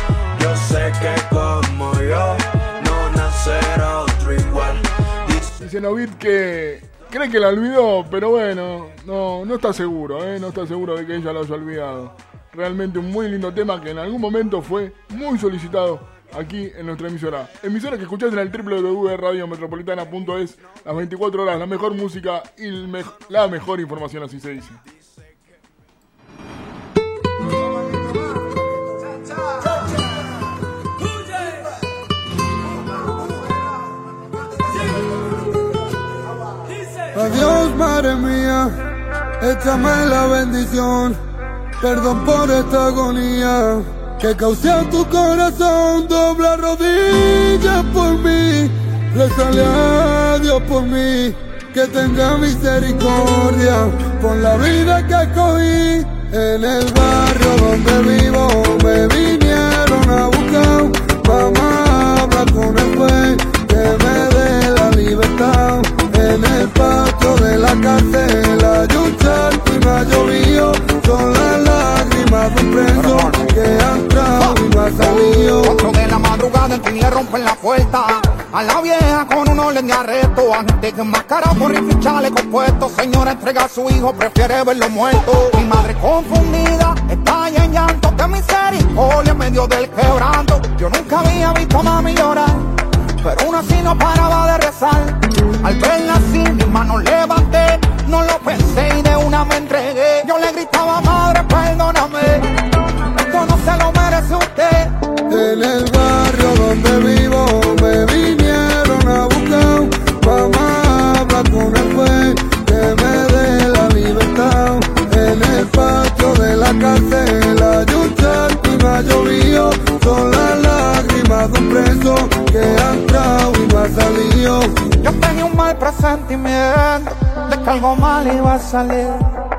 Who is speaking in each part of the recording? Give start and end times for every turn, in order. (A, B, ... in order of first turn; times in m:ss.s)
0:00.4-0:05.4 A
0:05.6-0:24.8 B
0:37.1-0:38.7 C
0:39.4-0:41.2 C
0:41.8-1:15.8 C
1:13.1-1:13.4 D
1:14.4-1:32.6 D
1:33.2-1:42.4 D
1:43.3-1:44.9 D
1:45.3-2:04.7 C
2:05.0-2:09.2 D